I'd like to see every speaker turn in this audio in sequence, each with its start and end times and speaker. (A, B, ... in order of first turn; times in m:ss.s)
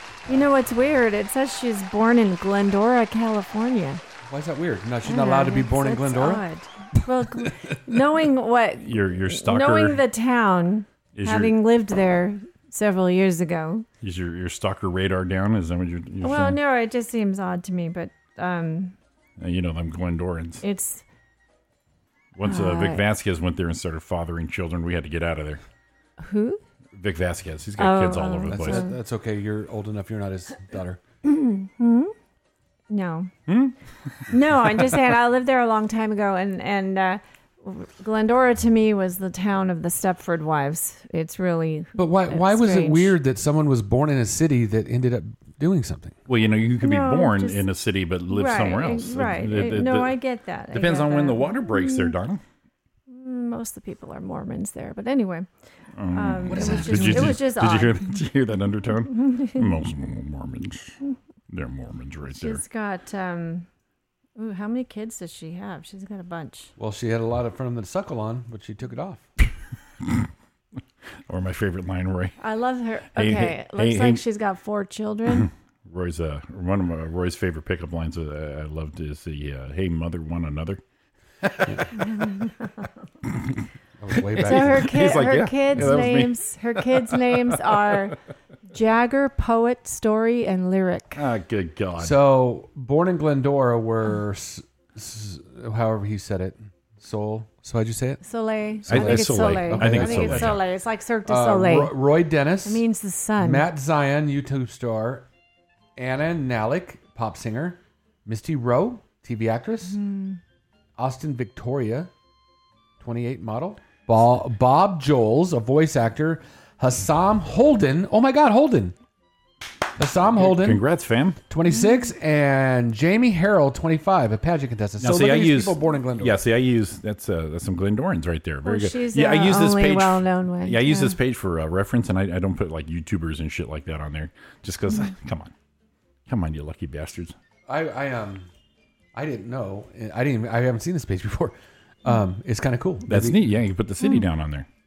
0:00.3-0:04.0 A
0:04.3-0:06.4 B
0:05.0-0:13.9 A
0:08.8-0:10.0 C
0:11.1-0:11.6 C
0:14.0-0:16.6 C
0:16.2-0:19.0 A
0:19.4-0:20.6 C
0:20.6-0:21.0 A
0:22.4-0:25.6 C
0:22.4-0:23.0 A
0:26.2-0:26.6 A
0:26.9-0:28.9 C
0:27.8-0:29.0 A
0:28.5-0:31.0 B
0:31.2-0:32.1 A
0:32.9-0:33.3 A
0:33.5-0:35.0 C
0:34.3-0:43.2 A
0:42.0-0:46.2 B
0:46.3-0:50.2 C
0:46.8-0:47.7 A
0:48.3-0:52.2 A
0:50.7-0:52.4 C
0:53.1-0:55.5 A
0:56.0-1:01.0 C
0:56.1-0:58.1 A
0:56.5-0:57.4 B
0:59.1-0:59.7 A
1:01.5-1:02.6 C
1:02.3-1:03.7 A
1:04.4-1:06.7 A
1:06.8-1:09.3 B
1:10.0-1:10.3 C
1:11.3-1:12.4 C
1:12.4-1:15.5 A
1:13.1-1:14.2 C
1:15.3-1:20.8 C
1:21.4-1:22.1 C
1:22.1-1:22.8 A
1:23.2-1:23.6 C
1:24.0-1:25.0 B
1:24.2-1:28.0 C
1:24.5-1:28.2 A
1:28.7-1:31.2 A
1:31.2-1:32.2 C
1:32.0-1:38.2 B
1:38.2-1:42.0 A
1:38.9-1:40.6 B
1:38.9-1:40.7 C
1:41.3-1:42.8 B
1:42.6-1:43.7 A
1:43.4-1:45.3 B
1:46.0-1:50.0 B
1:49.9-1:50.4 A
1:51.0-1:52.1 B
1:53.0-1:59.0 B
2:00.0-2:00.8 B
2:00.4-2:01.4 C
2:01.5-2:06.4 B
2:01.6-2:02.1 A
2:05.0-2:15.5 C
2:08.6-2:11.2 A
2:16.3-2:17.4 C
2:17.7-2:18.5 B
2:19.2-2:23.4 B
2:23.1-2:24.7 C
2:24.0-2:24.3 A